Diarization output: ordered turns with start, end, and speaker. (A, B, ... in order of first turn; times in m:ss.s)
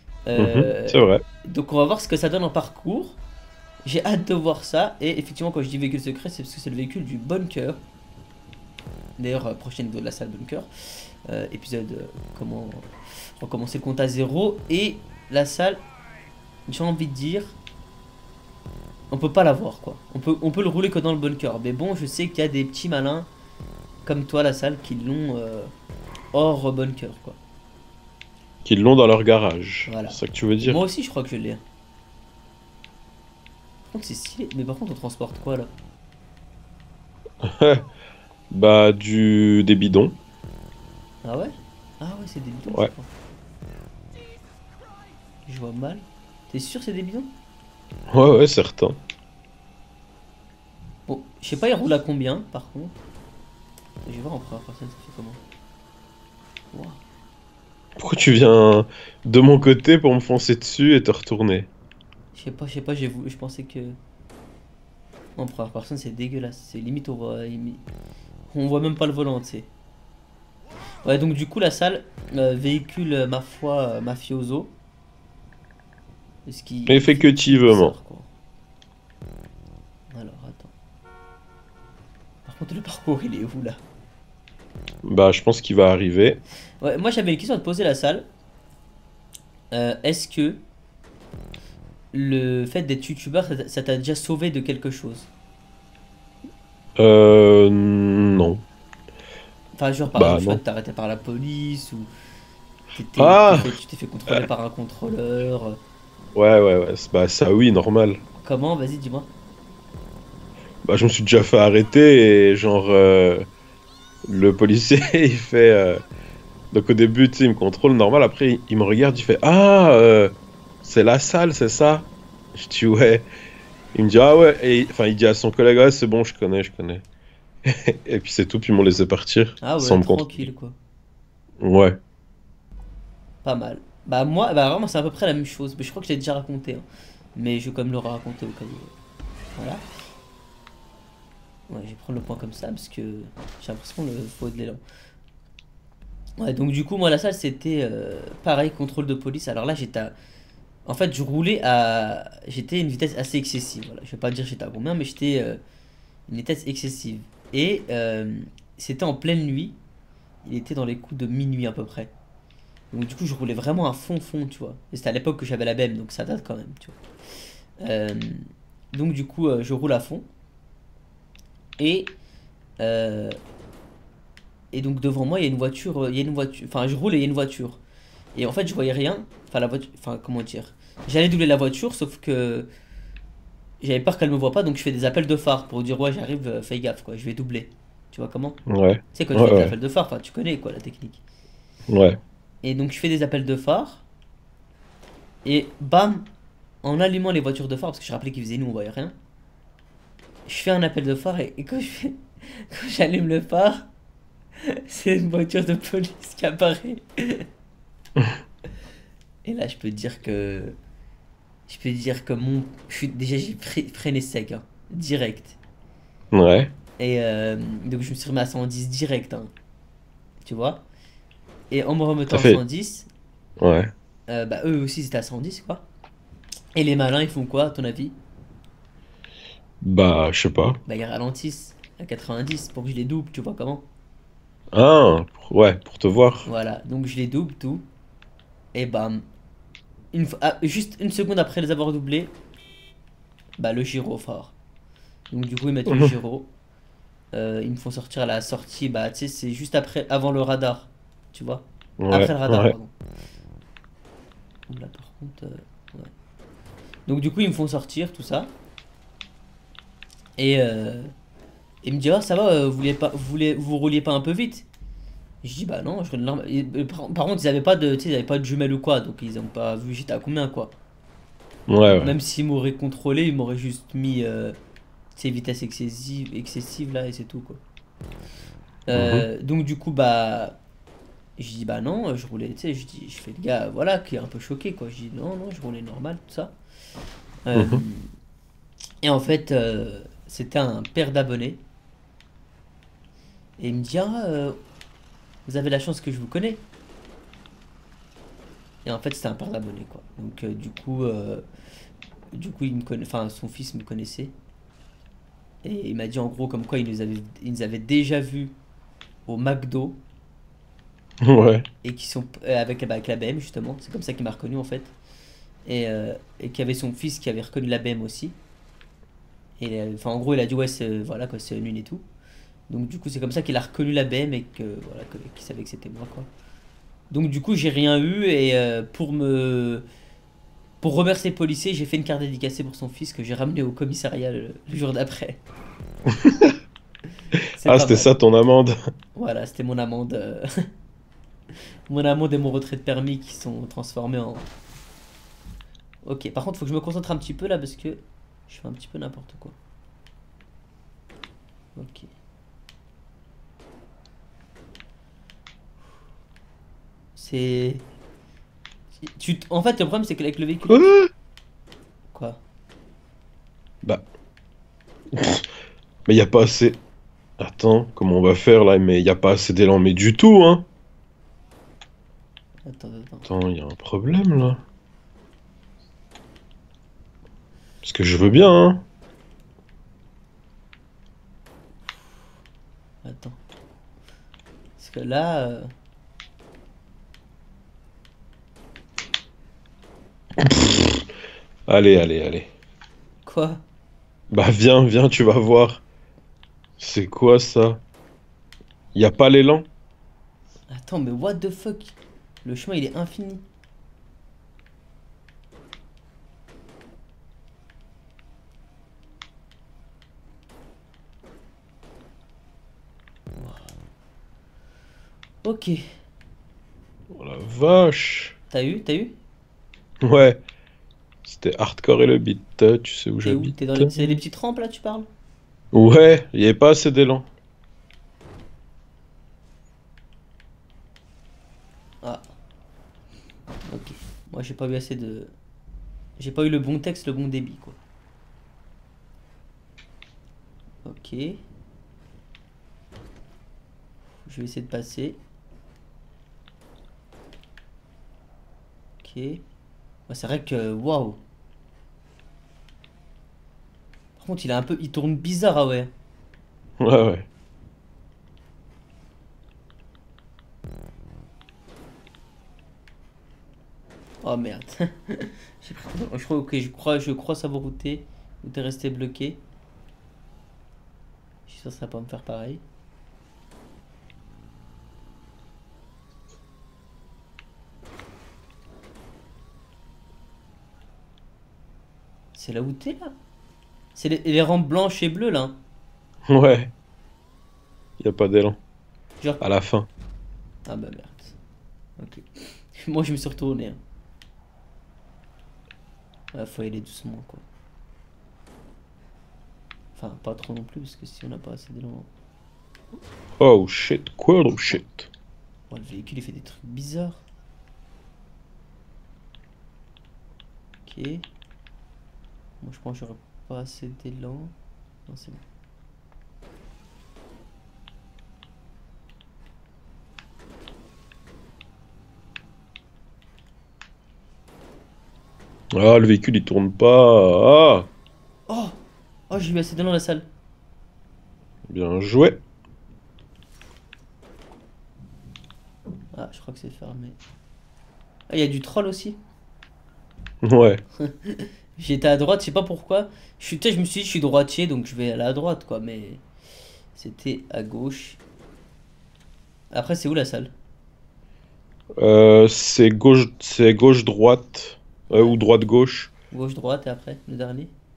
0:00.3-0:03.2 A
0:00.4-0:01.2 B
0:03.8-0:07.8 A
0:09.2-0:10.7 A
0:11.2-0:15.8 A
0:16.7-0:17.6 A
0:19.1-0:23.3 A
0:24.0-0:25.7 A
0:26.3-0:27.4 A
0:28.6-0:30.8 B
0:29.8-0:31.6 A
0:33.9-0:35.7 A
0:37.4-0:37.8 B
0:38.5-0:40.2 B
0:41.2-0:43.1 A
0:45.4-0:47.3 A
0:48.1-0:49.0 B
0:51.1-0:53.0 A
0:54.0-0:55.4 A
0:56.7-0:57.0 A
0:58.0-1:01.7 B
1:02.3-1:04.0 A
1:05.4-1:07.8 A
1:08.5-1:09.7 A
1:11.0-1:14.7 A
1:16.4-1:18.3 A
1:16.9-1:17.9 B
1:20.1-1:20.7 A
1:22.4-1:23.8 A
1:25.0-1:26.4 B
1:26.8-1:28.3 A
1:29.7-1:30.6 A
1:32.1-1:35.3 A
1:37.0-1:38.6 B
1:39.8-1:42.1 A
1:40.1-1:40.6 B
1:42.9-1:45.8 A
1:43.2-1:43.8 B
1:46.3-1:48.2 B
1:48.4-1:49.3 A
1:50.8-1:53.4 B
1:54.3-1:56.0 B
1:56.7-2:03.3 B
2:03.9-2:07.0 B
2:07.7-2:10.5 B
2:09.6-2:10.8 A
2:11.6-2:12.0 B
2:13.4-2:18.9 A
2:19.5-2:19.9 A
2:21.7-2:24.8 A
2:26.4-2:30.1 A
2:30.8-2:35.6 A
2:36.3-2:39.8 A
2:40.4-2:42.1 A
2:42.9-2:47.0 A
2:47.8-2:50.2 A
2:51.8-2:52.2 A
2:52.8-2:53.4 A
2:54.7-2:57.8 A
2:58.3-3:02.7 A
3:03.8-3:08.6 A
3:08.7-3:09.7 B
3:09.1-3:11.2 A
3:11.9-3:12.2 B
3:12.6-3:14.0 A
3:15.4-3:16.3 A
3:16.8-3:19.1 A
3:20.4-3:23.9 A
3:24.6-3:27.4 A
3:29.4-3:30.8 A
3:31.7-3:35.6 A
3:36.3-3:36.7 B
3:37.0-3:39.5 A
3:40.4-3:40.8 A
3:41.7-3:43.1 A
3:42.3-3:42.6 B
3:43.6-3:43.9 B
3:44.3-3:45.8 A
3:46.7-3:48.2 A
3:49.8-3:50.8 B
3:50.8-3:53.9 A
3:54.7-3:56.5 B
3:56.4-3:57.8 A
3:58.7-3:59.2 A
4:00.1-4:02.3 A
4:03.6-4:04.5 A
4:05.3-4:06.5 A
4:05.9-4:06.1 B
4:07.3-4:12.9 A
4:12.0-4:12.7 B
4:14.7-4:16.1 A
4:17.1-4:18.5 A
4:20.4-4:21.1 A
4:21.8-4:24.6 A
4:25.4-4:30.7 A
4:31.7-4:32.1 B
4:31.8-4:34.6 A
4:35.1-4:37.6 A
4:38.9-4:40.6 A
4:38.9-4:39.3 B
4:41.4-4:46.5 A
4:47.4-4:48.1 A
4:47.5-4:47.8 B
4:49.0-4:51.6 A
4:53.6-4:54.6 A
4:55.4-4:56.6 A
4:58.8-5:01.4 A
5:02.3-5:04.3 A
5:05.6-5:08.6 A
5:09.2-5:10.0 A
5:11.2-5:11.7 B
5:11.8-5:14.9 A
5:15.6-5:18.4 A
5:19.6-5:22.0 A
5:22.7-5:26.3 A
5:27.1-5:29.8 A
5:30.8-5:35.4 A
5:36.1-5:36.5 B
5:37.6-5:38.1 A
5:37.6-5:38.8 B
5:39.1-5:40.5 A
5:41.9-5:44.5 A
5:46.0-5:49.6 A
5:51.7-5:52.1 A
5:57.1-5:57.8 A
5:59.0-6:00.9 A
6:00.7-6:01.1 B
6:02.1-6:02.4 A
6:05.1-6:05.4 B
6:06.1-6:06.8 B
6:07.4-6:10.6 B
6:12.6-6:13.3 A
6:13.2-6:14.6 B
6:17.8-6:18.8 B
6:23.0-6:23.4 A
6:24.8-6:25.7 A
6:30.4-6:31.0 B
6:31.7-6:32.5 B
6:33.2-6:33.6 A
6:34.3-6:35.8 B
6:36.8-6:37.8 B
6:38.9-6:39.7 B
6:40.7-6:43.4 A
6:53.3-6:53.7 A
6:55.4-6:55.8 A
6:57.1-6:58.3 B
6:58.5-6:59.2 A
7:00.0-7:00.4 B
7:01.2-7:04.2 B
7:03.2-7:05.1 A
7:05.7-7:07.3 B
7:13.6-7:15.3 A
7:16.2-7:17.8 A
7:20.8-7:21.4 A
7:24.2-7:25.2 A
7:29.0-7:29.4 A
7:30.1-7:31.2 A
7:34.2-7:35.9 A
7:36.8-7:37.3 B
7:44.2-7:49.4 A
7:51.4-7:52.6 A
8:02.3-8:03.1 A
8:03.9-8:05.6 A
8:06.3-8:06.7 B
8:08.0-8:08.6 B
8:09.4-8:09.9 B
8:10.7-8:11.4 A
8:12.0-8:13.8 A
8:16.3-8:17.4 A
8:19.9-8:22.1 A
8:23.4-8:25.1 B
8:25.7-8:27.2 A
8:30.8-8:31.3 A
8:32.6-8:34.5 A
8:35.1-8:35.4 A
8:45.7-8:47.9 B
8:48.5-8:48.8 A
8:49.3-8:50.3 A
8:51.7-8:52.4 B
8:56.1-8:57.2 A
8:58.3-8:59.2 A
9:00.4-9:00.8 B
9:01.0-9:06.2 A
9:06.9-9:08.2 A
9:09.7-9:10.5 A
9:12.0-9:16.1 B
9:15.1-9:15.4 A
9:16.3-9:17.7 A